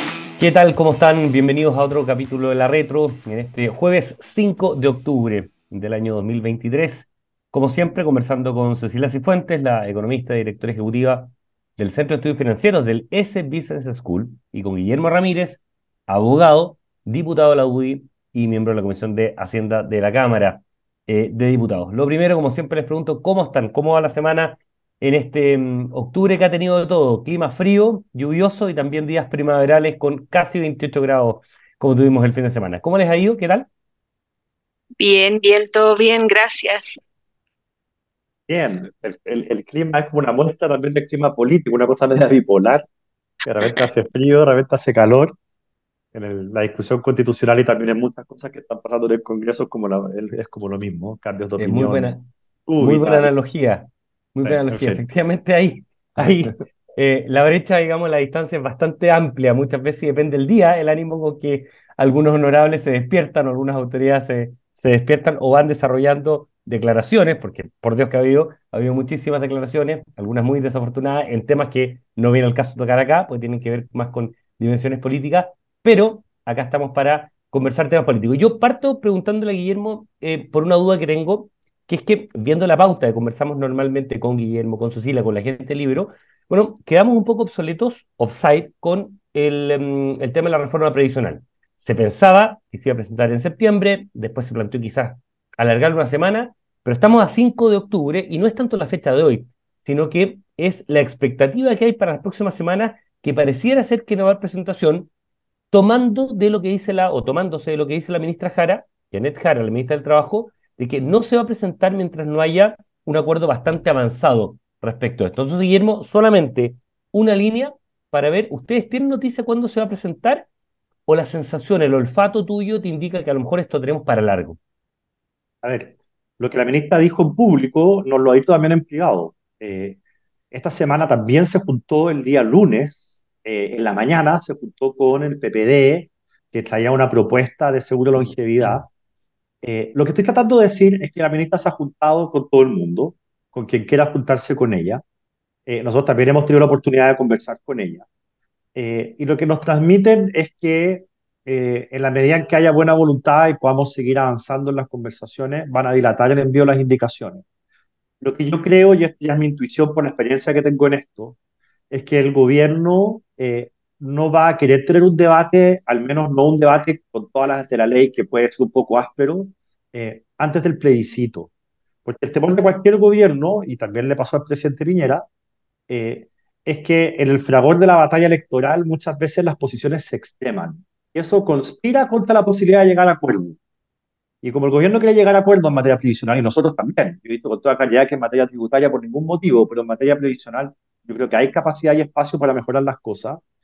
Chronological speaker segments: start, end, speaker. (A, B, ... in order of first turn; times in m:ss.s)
0:00.4-0:33.7 A
0:35.0-0:37.0 B
0:38.5-0:42.8 C
0:43.4-0:45.3 C
0:46.1-0:52.1 C
0:51.6-0:52.3 A
0:52.7-0:53.3 C
0:52.8-1:45.1 A
0:54.4-0:55.0 C
0:56.2-0:56.5 C
1:45.7-2:00.5 A
2:01.1-2:04.6 A
2:05.6-2:10.0 C
2:10.5-2:18.8 C
2:18.2-2:18.8 A
2:19.6-2:25.0 C
2:25.7-2:28.0 C
2:28.7-2:37.4 C
2:38.2-2:41.4 C
2:41.9-2:51.5 C
2:52.0-2:55.2 C
2:55.9-3:03.6 C
3:04.4-3:13.4 C